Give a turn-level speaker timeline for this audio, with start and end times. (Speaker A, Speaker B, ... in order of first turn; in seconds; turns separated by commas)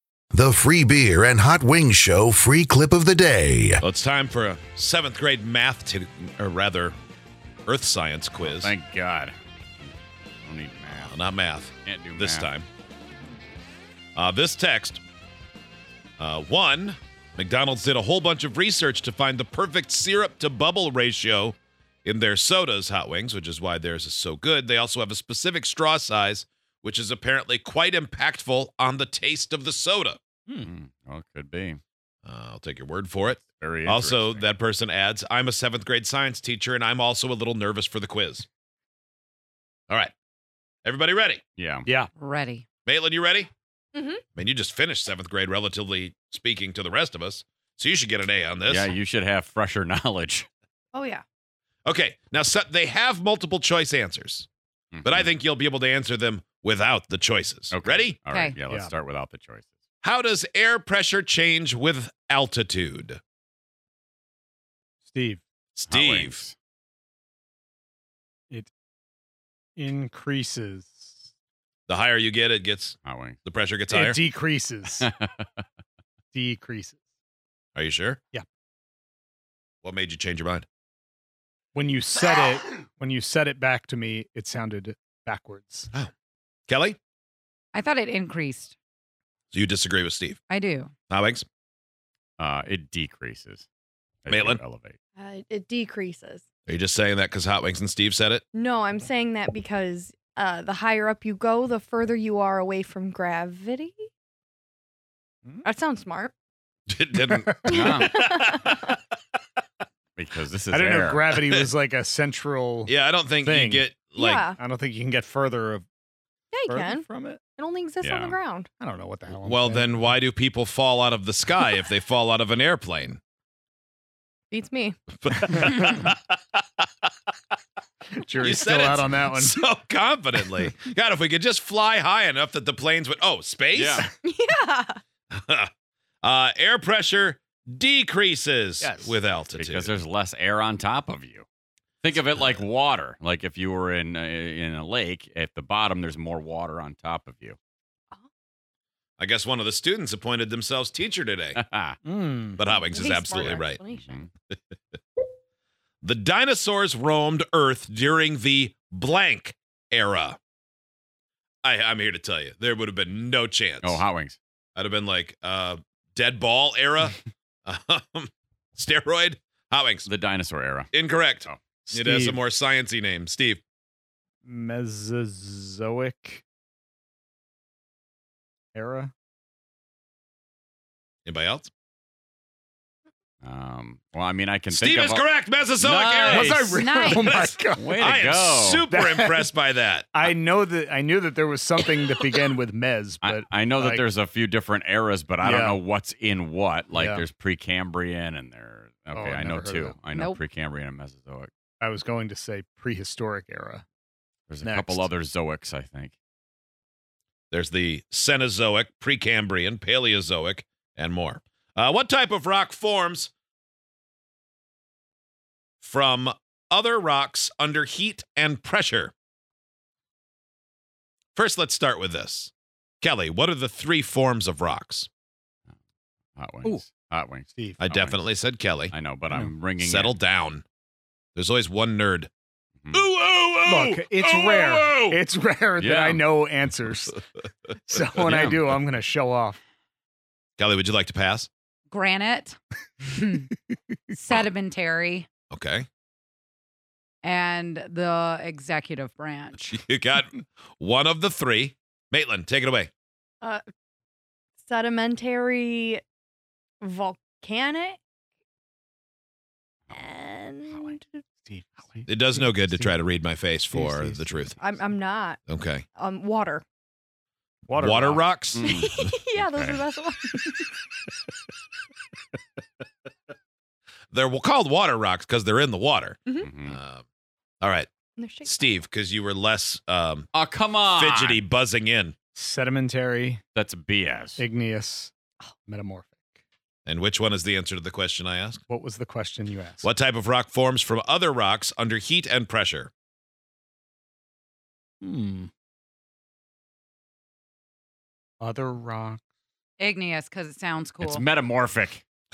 Speaker A: 0.3-3.8, Speaker B: 3.8-6.9, Speaker B: 7.7-8.7, Speaker C: 8.4-9.9, Speaker C: 10.4-11.1, Speaker B: 10.9-12.7, Speaker C: 11.8-12.5, Speaker B: 14.2-15.0, Speaker B: 16.2-30.2, Speaker C: 30.6-31.8, Speaker B: 32.2-38.5, Speaker C: 33.3-34.5, Speaker B: 40.8-41.4, Speaker C: 41.6-41.9, Speaker D: 42.1-42.6, Speaker B: 42.9-43.5, Speaker E: 43.9-44.2, Speaker B: 44.3-48.9, Speaker C: 48.7-50.5, Speaker E: 50.9-51.2, Speaker B: 51.8-54.5, Speaker C: 54.9-55.3, Speaker B: 55.0-58.2, Speaker C: 57.7-59.7, Speaker D: 58.3-58.6, Speaker F: 58.7-58.9, Speaker B: 60.0-63.2, Speaker F: 65.1-65.4, Speaker B: 65.8-66.4, Speaker C: 65.9-66.5, Speaker F: 69.8-71.3, Speaker B: 71.9-74.2, Speaker C: 73.0-73.4, Speaker F: 73.9-75.1, Speaker C: 75.0-75.5, Speaker F: 76.3-77.0, Speaker B: 77.8-78.2, Speaker B: 79.8-80.7, Speaker F: 81.7-85.9, Speaker B: 86.7-87.0, Speaker D: 87.7-88.7, Speaker B: 89.5-90.4, Speaker D: 90.5-90.9, Speaker B: 91.1-91.4, Speaker C: 92.4-93.7, Speaker C: 94.2-95.0, Speaker B: 94.3-94.6, Speaker E: 95.2-96.4, Speaker B: 96.7-98.4, Speaker E: 98.5-104.1, Speaker E: 105.6-106.3, Speaker B: 106.9-109.0, Speaker F: 107.3-108.0, Speaker E: 107.7-108.7, Speaker C: 107.7-108.2, Speaker C: 110.2-111.3, Speaker F: 110.7-113.9, Speaker B: 111.4-111.7, Speaker B: 112.8-114.4, Speaker E: 114.1-114.6, Speaker F: 114.6-115.8, Speaker E: 116.5-118.7, Speaker F: 116.7-117.4, Speaker C: 118.0-118.3, Speaker F: 118.8-120.1, Speaker B: 119.4-123.2, Speaker E: 124.5-125.0, Speaker B: 125.2-126.4, Speaker F: 128.2-129.6, Speaker B: 128.4-134.1, Speaker F: 130.4-130.7, Speaker C: 133.7-134.1, Speaker E: 134.2-135.0, Speaker B: 135.3-135.7, Speaker B: 136.2-139.9, Speaker F: 138.8-139.2, Speaker C: 139.5-141.4, Speaker C: 142.0-147.6, Speaker B: 149.2-151.6, Speaker C: 151.6-152.0, Speaker F: 152.0-152.7, Speaker B: 152.5-153.8, Speaker E: 152.7-154.3, Speaker C: 153.9-154.3, Speaker B: 156.0-160.4, Speaker B: 161.6-164.0, Speaker C: 163.8-164.4, Speaker B: 164.8-170.1, Speaker C: 170.0-170.9, Speaker B: 170.9-173.6, Speaker F: 171.9-172.4, Speaker F: 174.4-176.4, Speaker F: 178.7-179.1, Speaker B: 181.2-181.7, Speaker C: 183.4-186.9, Speaker B: 184.7-190.1, Speaker F: 186.3-188.2, Speaker D: 186.8-187.2, Speaker C: 187.8-188.9, Speaker F: 188.8-189.5, Speaker F: 190.1-194.0, Speaker C: 193.2-201.5, Speaker F: 195.4-195.8, Speaker F: 196.9-197.3, Speaker F: 199.1-200.0, Speaker D: 200.1-200.4, Speaker F: 201.8-203.8, Speaker C: 204.5-206.1, Speaker F: 204.6-205.1, Speaker B: 207.5-213.3, Speaker B: 215.8-219.1, Speaker B: 221.3-225.1, Speaker C: 226.4-228.2, Speaker F: 227.6-227.8, Speaker B: 227.8-228.9, Speaker C: 228.9-230.2, Speaker B: 229.7-230.6, Speaker B: 231.3-232.3, Speaker B: 232.9-235.2, Speaker F: 233.7-237.2, Speaker C: 235.8-236.3, Speaker F: 237.8-239.6, Speaker C: 238.2-238.8, Speaker B: 240.6-241.5, Speaker D: 241.9-243.5, Speaker D: 244.1-245.3, Speaker B: 245.5-245.8, Speaker D: 247.2-249.8, Speaker B: 249.6-252.9, Speaker E: 254.6-256.0, Speaker E: 256.8-258.0, Speaker E: 259.9-261.0, Speaker F: 260.8-263.0, Speaker B: 262.1-264.6, Speaker F: 263.7-264.7, Speaker E: 264.6-265.4, Speaker B: 265.5-265.8, Speaker E: 265.9-266.6, Speaker F: 267.7-268.3, Speaker B: 267.7-269.1, Speaker C: 268.5-269.8, Speaker E: 268.6-270.8, Speaker B: 274.1-277.0, Speaker E: 276.2-276.5, Speaker C: 276.4-276.8, Speaker B: 277.6-277.9, Speaker E: 278.1-278.8, Speaker B: 278.4-280.3, Speaker C: 280.3-281.4, Speaker B: 280.9-282.2, Speaker F: 282.3-283.4, Speaker C: 283.5-284.4, Speaker F: 284.4-286.2, Speaker B: 286.9-288.6, Speaker F: 288.7-289.9, Speaker B: 289.8-292.9, Speaker F: 295.0-295.5, Speaker F: 298.4-299.2, Speaker D: 299.8-301.2, Speaker C: 301.0-302.0